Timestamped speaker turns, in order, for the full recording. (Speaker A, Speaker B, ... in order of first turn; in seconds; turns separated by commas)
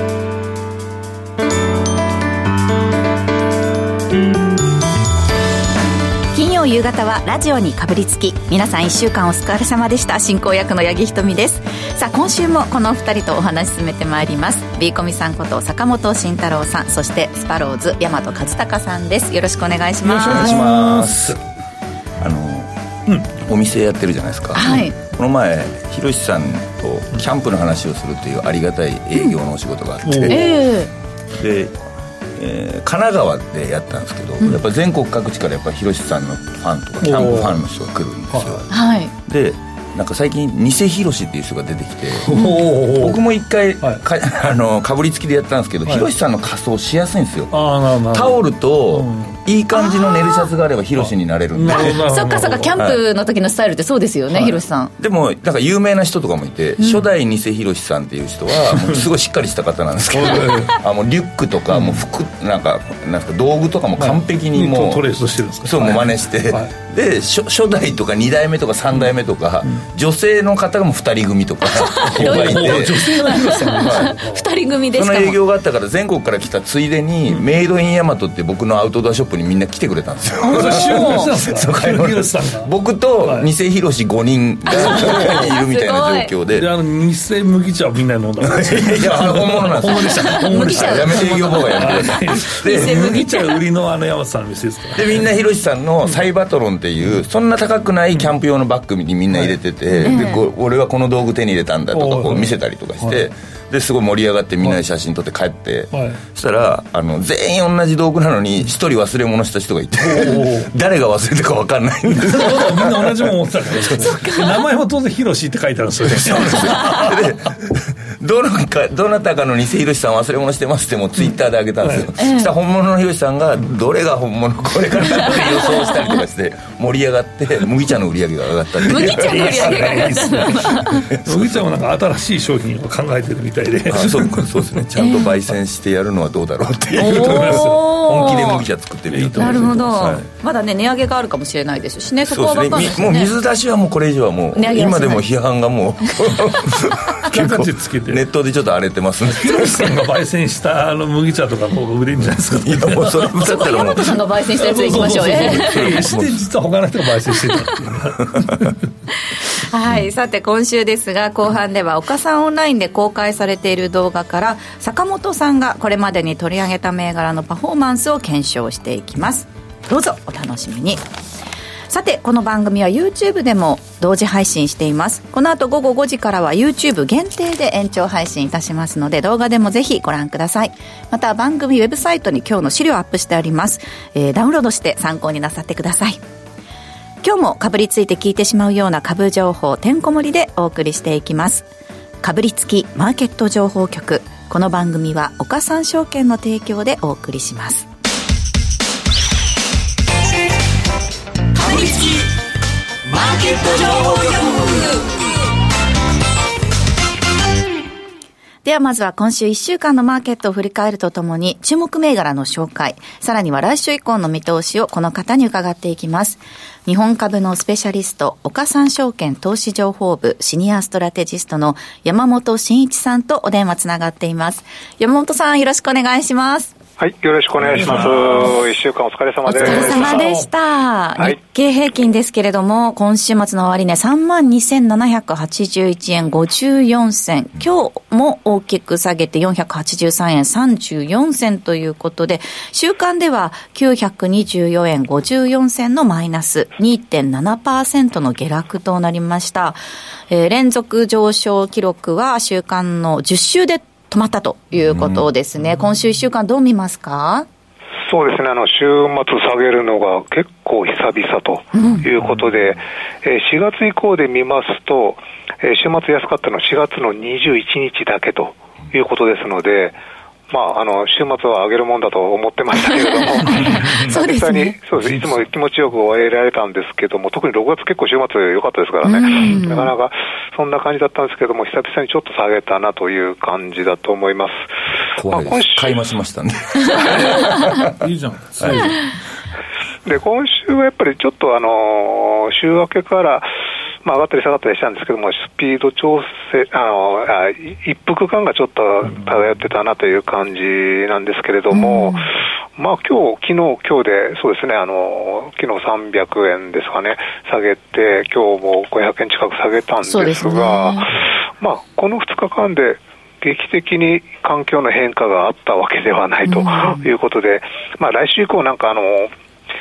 Speaker A: 6.3-20.6, Speaker B: 20.0-21.4, Speaker C: 20.3-21.4, Speaker C: 22.2-22.7, Speaker C: 23.3-30.6, Speaker A: 24.5-24.9, Speaker B: 30.0-30.6, Speaker A: 30.2-30.9, Speaker C: 31.3-31.7, Speaker C: 32.3-38.7, Speaker B: 37.0-37.6, Speaker B: 38.3-38.7, Speaker A: 38.7-39.1, Speaker C: 39.2-52.0, Speaker B: 42.2-43.2, Speaker A: 42.3-42.6, Speaker B: 47.5-49.4, Speaker A: 49.7-50.5, Speaker B: 51.0-52.7, Speaker A: 51.7-54.9, Speaker B: 54.3-54.6, Speaker C: 55.0-65.0, Speaker A: 56.8-57.0, Speaker B: 58.6-59.0, Speaker B: 60.1-60.8, Speaker B: 61.7-62.0, Speaker B: 64.0-66.7, Speaker C: 65.6-74.2, Speaker A: 71.7-75.4, Speaker B: 72.0-74.5, Speaker C: 74.9-86.7, Speaker A: 80.4-81.3, Speaker B: 80.5-82.7, Speaker B: 83.2-83.5, Speaker A: 84.7-86.3, Speaker B: 84.7-85.5, Speaker B: 86.5-95.3, Speaker C: 88.4-93.2, Speaker A: 90.0-93.6, Speaker C: 94.9-114.1, Speaker B: 99.3-100.2, Speaker A: 100.0-100.4, Speaker B: 101.9-103.2, Speaker B: 105.9-106.2, Speaker B: 110.0-110.7, Speaker B: 112.1-117.3, Speaker A: 114.0-114.6, Speaker C: 116.1-131.7, Speaker B: 121.8-122.1, Speaker A: 122.2-122.5, Speaker A: 125.2-126.0, Speaker A: 128.8-131.1, Speaker B: 128.9-134.7, Speaker C: 133.9-140.3, Speaker A: 135.0-135.3, Speaker B: 136.9-137.8, Speaker A: 137.0-138.7, Speaker B: 139.1-139.8, Speaker A: 139.4-143.3, Speaker C: 142.3-150.0, Speaker A: 144.5-145.3, Speaker B: 147.2-148.2, Speaker B: 149.3-153.6, Speaker C: 152.6-154.1, Speaker A: 153.4-156.1, Speaker B: 154.6-158.8, Speaker C: 154.7-156.4, Speaker A: 157.4-157.8, Speaker C: 158.3-158.7, Speaker A: 159.3-171.0, Speaker A: 171.9-186.2, Speaker A: 187.2-191.7, Speaker A: 192.2-197.9, Speaker D: 201.5-202.3, Speaker D: 203.1-205.1, Speaker A: 208.6-226.7, Speaker E: 227.0-230.3, Speaker B: 227.6-228.6, Speaker A: 229.4-249.8, Speaker B: 229.5-230.5, Speaker A: 250.3-257.5, Speaker C: 254.9-255.2, Speaker E: 258.0-270.0, Speaker A: 261.7-262.1, Speaker E: 270.5-284.7, Speaker A: 273.0-274.8, Speaker B: 273.6-273.9, Speaker A: 279.0-279.9, Speaker C: 285.2-288.1, Speaker E: 285.2-286.0, Speaker A: 287.0-287.6, Speaker B: 287.9-289.1, Speaker C: 288.6-289.0, Speaker E: 290.0-293.5, Speaker E: 294.0-319.3, Speaker A: 301.7-302.3, Speaker A: 310.0-311.1, Speaker A: 316.4-317.1